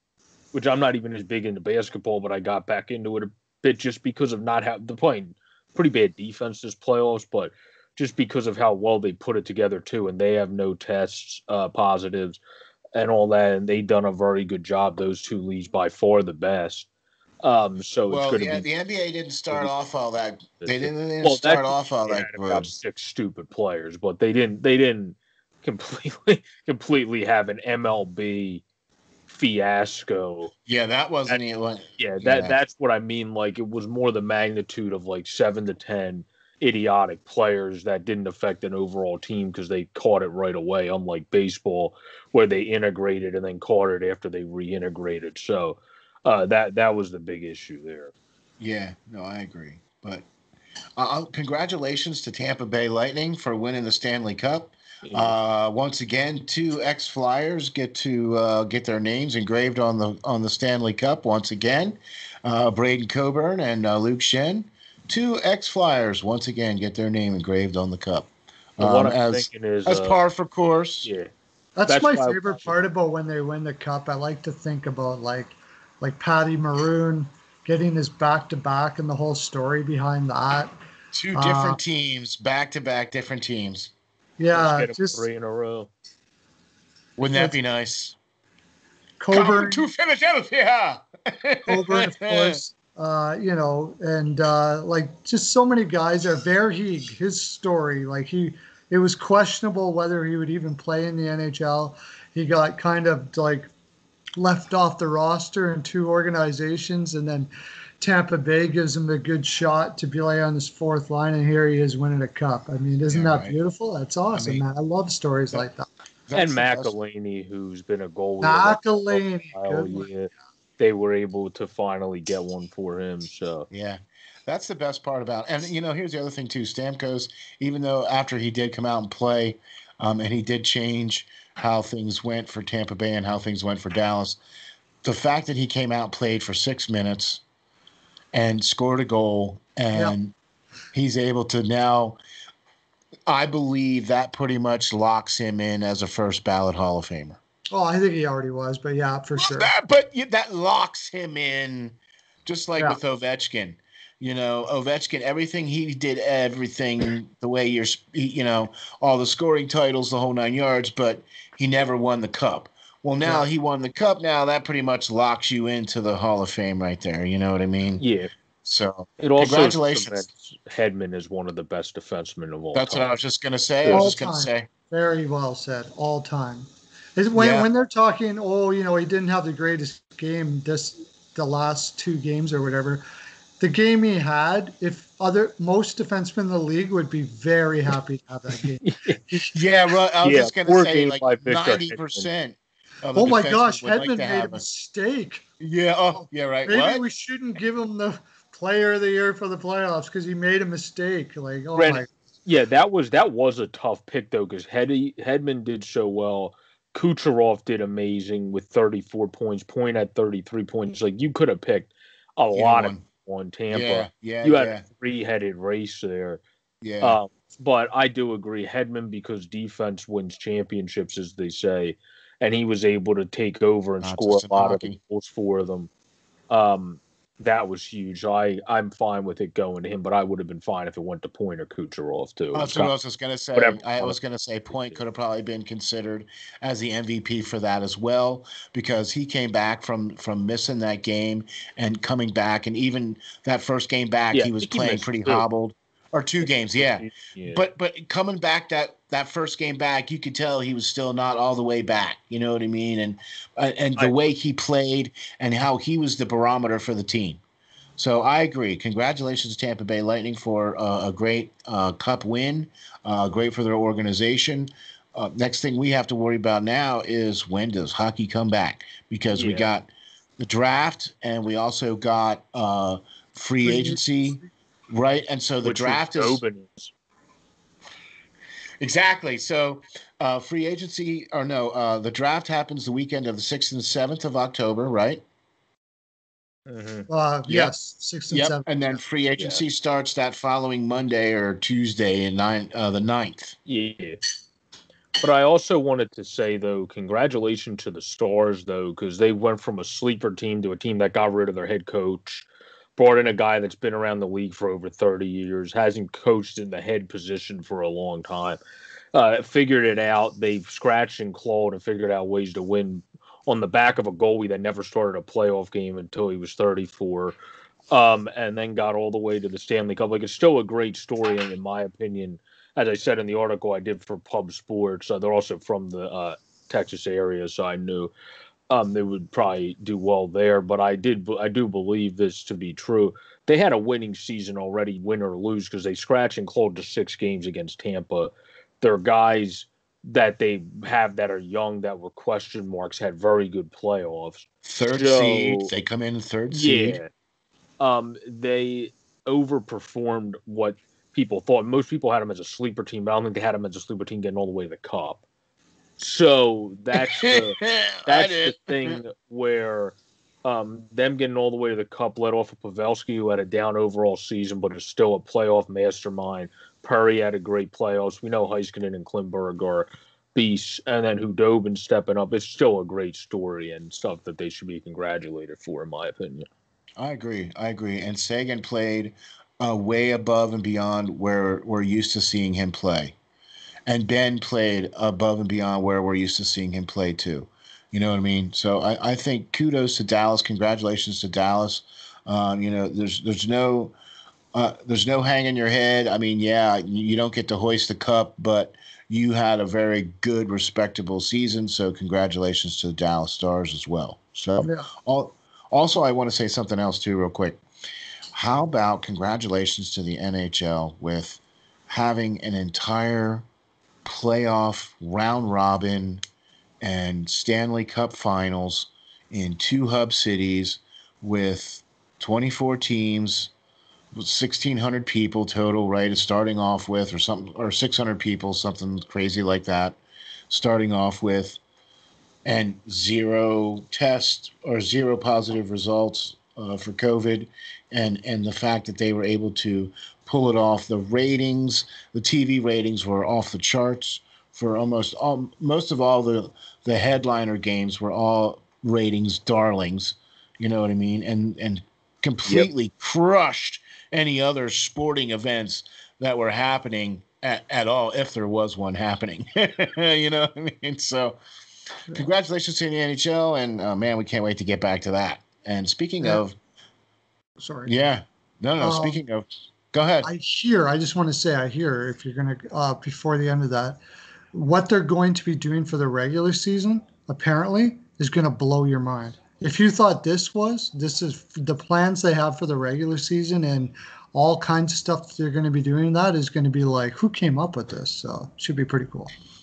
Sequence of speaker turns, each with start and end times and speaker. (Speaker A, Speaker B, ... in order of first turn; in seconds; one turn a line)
Speaker A: 0.5-12.4
Speaker A: 12.9-16.9
Speaker A: 17.4-18.7
Speaker B: 18.1-22.7
Speaker A: 20.6-28.6
Speaker A: 29.3-30.5
Speaker B: 30.6-32.5
Speaker A: 32.0-48.1
Speaker B: 48.6-50.2
Speaker B: 51.0-71.1
Speaker A: 55.0-55.4
Speaker A: 68.8-70.2
Speaker A: 71.0-71.3
Speaker C: 71.8-80.7
Speaker A: 71.9-72.7
Speaker B: 81.1-83.9
Speaker C: 81.3-81.8
Speaker C: 84.4-85.2
Speaker A: 84.5-85.9
Speaker B: 87.2-88.2
Speaker C: 89.2-89.9
Speaker B: 89.3-92.6
Speaker C: 91.7-103.7
Speaker C: 104.4-115.9
Speaker B: 113.1-113.5
Speaker B: 114.3-114.6
Speaker B: 116.3-116.9
Speaker A: 116.3-123.7
Speaker C: 118.4-120.1
Speaker B: 123.7-134.4
Speaker B: 135.0-137.4
Speaker B: 138.3-140.3
Speaker B: 140.9-142.2
Speaker B: 143.3-147.4
Speaker C: 147.7-149.7
Speaker B: 149.4-168.0
Speaker A: 168.0-168.3
Speaker B: 168.6-170.2
Speaker A: 169.2-173.1
Speaker B: 172.7-174.7
Speaker C: 173.9-183.0
Speaker B: 177.3-177.7
Speaker C: 183.6-189.5
Speaker A: 188.8-189.2
Speaker B: 189.5-194.6
Speaker A: 190.2-192.3
Speaker C: 193.1-195.4
Speaker B: 195.6-197.0
Speaker C: 196.2-202.1
Speaker A: 201.8-216.4
Speaker B: 212.5-213.0
Speaker B: 213.7-214.8
Speaker B: 216.8-217.2
Speaker A: 217.0-225.9
Speaker B: 224.0-225.0
Speaker A: 226.5-232.9
Speaker B: 232.5-257.4
Speaker A: 233.5-234.2
Speaker A: 244.3-245.4
Speaker A: 246.8-247.6
Speaker B: 258.0-276.4
Speaker A: 269.3-269.7
Speaker C: 273.6-274.5
Speaker A: 275.6-276.9
Speaker B: 278.8-285.2
Speaker A: 286.7-287.1
Speaker C: 287.1-289.0
Speaker B: 287.5-287.7
Speaker B: 288.3-293.6
Speaker A: 289.4-289.6
Speaker A: 293.6-294.2
Speaker A: 295.2-308.6
Speaker A: 309.1-317.4
Speaker A: 317.9-328.1
Speaker A: 328.7-345.7
Speaker B: 344.6-347.0
Speaker A: 346.5-347.1
Speaker A: 347.8-355.2
Speaker A: 356.0-376.5
Speaker B: 356.9-359.0
Speaker B: 377.0-383.1
Speaker B: 383.9-393.9
Speaker B: 394.5-407.6
Speaker C: 404.6-404.9
Speaker B: 408.3-413.4
Speaker B: 414.0-416.2
Speaker B: 416.8-423.5
Speaker B: 424.1-430.0
Speaker B: 430.5-431.6
Speaker B: 432.4-461.4
Speaker B: 462.1-466.6
Speaker C: 467.6-467.9
Speaker B: 467.9-470.3
Speaker C: 468.8-469.2
Speaker C: 470.2-474.0
Speaker C: 474.5-489.3